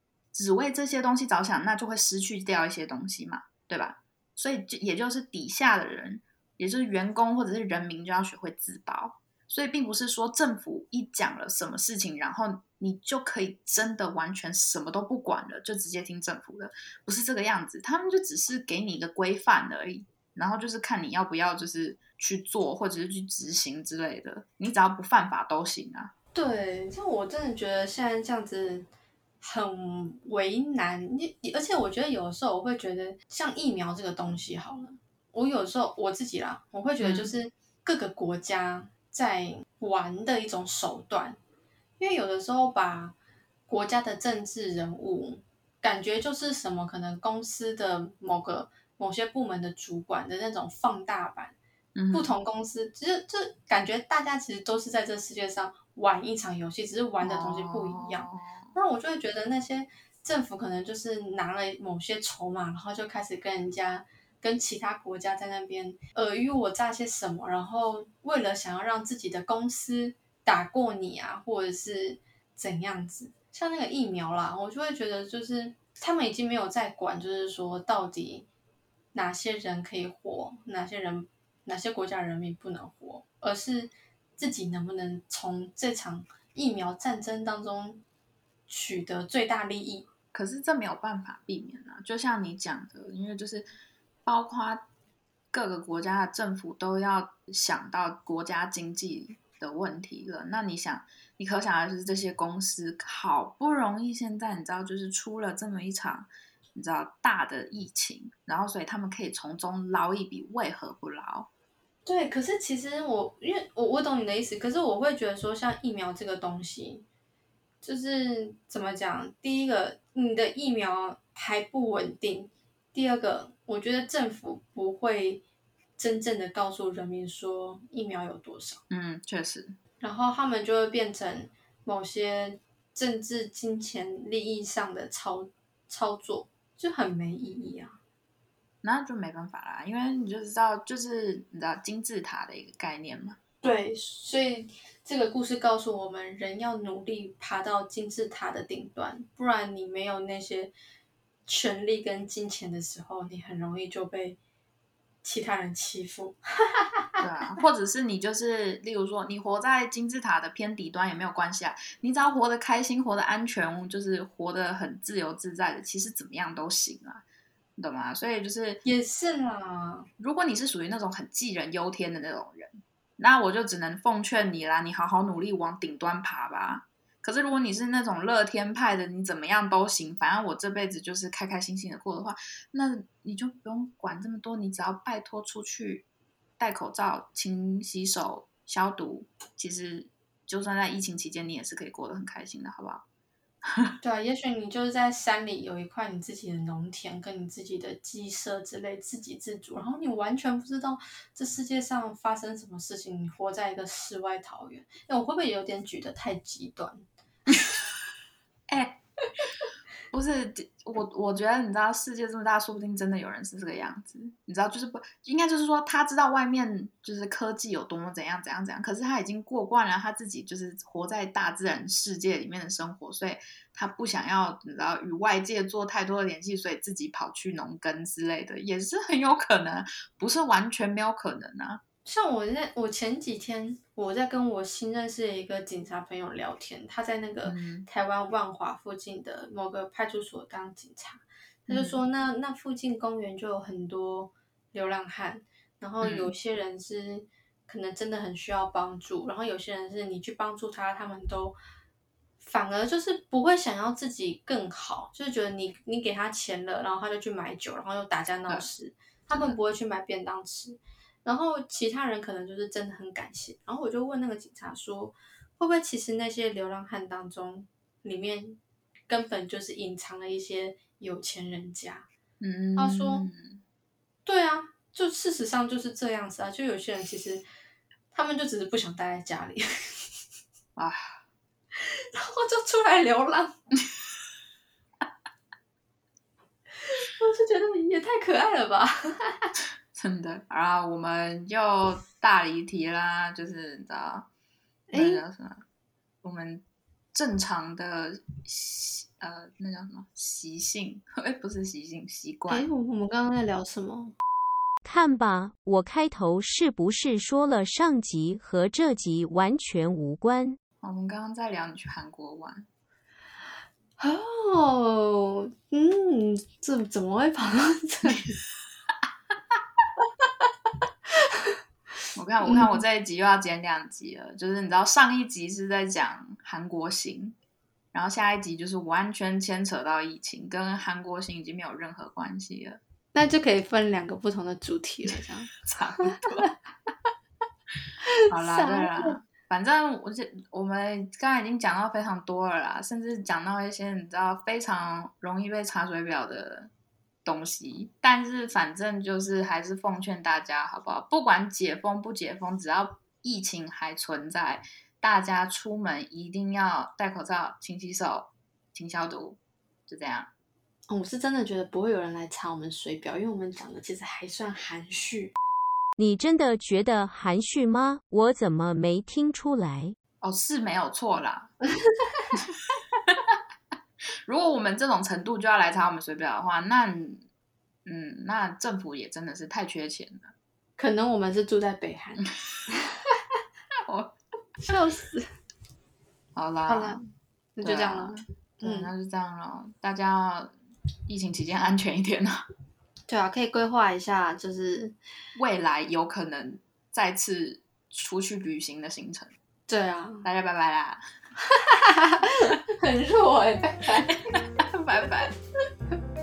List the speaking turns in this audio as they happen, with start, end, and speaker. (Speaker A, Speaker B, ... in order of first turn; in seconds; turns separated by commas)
Speaker A: 0.3-26.1, Speaker B: 26.3-28.9, Speaker B: 29.4-41.4, Speaker A: 37.0-37.3, Speaker B: 42.0-43.1, Speaker B: 43.7-51.5, Speaker A: 51.9-52.3, Speaker B: 52.1-78.5, Speaker A: 57.2-58.7, Speaker B: 79.1-88.0, Speaker B: 88.7-90.1, Speaker A: 90.3-93.7, Speaker A: 94.2-94.9, Speaker A: 95.5-111.5, Speaker B: 112.0-117.0, Speaker B: 117.8-125.4, Speaker B: 126.0-128.8, Speaker A: 128.9-129.8, Speaker B: 130.0-138.0, Speaker A: 138.8-143.4, Speaker B: 143.6-150.7, Speaker B: 151.4-154.4, Speaker B: 155.2-157.2, Speaker A: 157.2-167.2, Speaker A: 167.8-168.8, Speaker B: 168.8-170.1, Speaker A: 170.2-186.1, Speaker A: 186.6-193.0, Speaker B: 194.0-207.6, Speaker A: 208.7-209.0, Speaker A: 210.1-231.8, Speaker B: 232.0-251.6, Speaker A: 237.4-237.9, Speaker A: 241.7-242.0, Speaker A: 246.0-246.3, Speaker B: 252.4-272.1, Speaker A: 259.3-259.6, Speaker A: 272.4-273.6, Speaker B: 272.8-273.2, Speaker B: 274.2-277.4, Speaker B: 278.1-280.1, Speaker A: 280.8-281.1, Speaker B: 281.7-283.6, Speaker B: 286.8-289.5, Speaker A: 289.9-294.3, Speaker B: 294.9-295.2, Speaker A: 294.9-295.6, Speaker A: 296.2-302.7, Speaker B: 302.5-304.1, Speaker C: 304.8-310.6, Speaker A: 310.8-312.7, Speaker B: 314.0-318.4, Speaker A: 322.1-327.4, Speaker B: 322.4-322.8, Speaker A: 327.9-332.8, Speaker B: 333.1-335.6, Speaker A: 335.6-336.9, Speaker B: 338.0-339.1, Speaker A: 338.3-346.7, Speaker A: 347.2-360.3, Speaker B: 360.9-365.3, Speaker C: 365.9-369.9, Speaker A: 370.2-371.5, Speaker B: 371.9-372.3, Speaker A: 374.2-377.2, Speaker A: 377.9-380.3, Speaker B: 380.8-382.8, Speaker A: 383.9-384.1, Speaker B: 384.6-385.3, Speaker A: 386.3-387.0, Speaker B: 386.6-388.9, Speaker A: 387.6-390.5, Speaker A: 391.1-392.4, Speaker B: 393.1-394.9, Speaker A: 395.3-399.3, Speaker B: 399.7-400.3, Speaker A: 400.2-401.0, Speaker B: 401.6-404.3, Speaker A: 404.6-405.3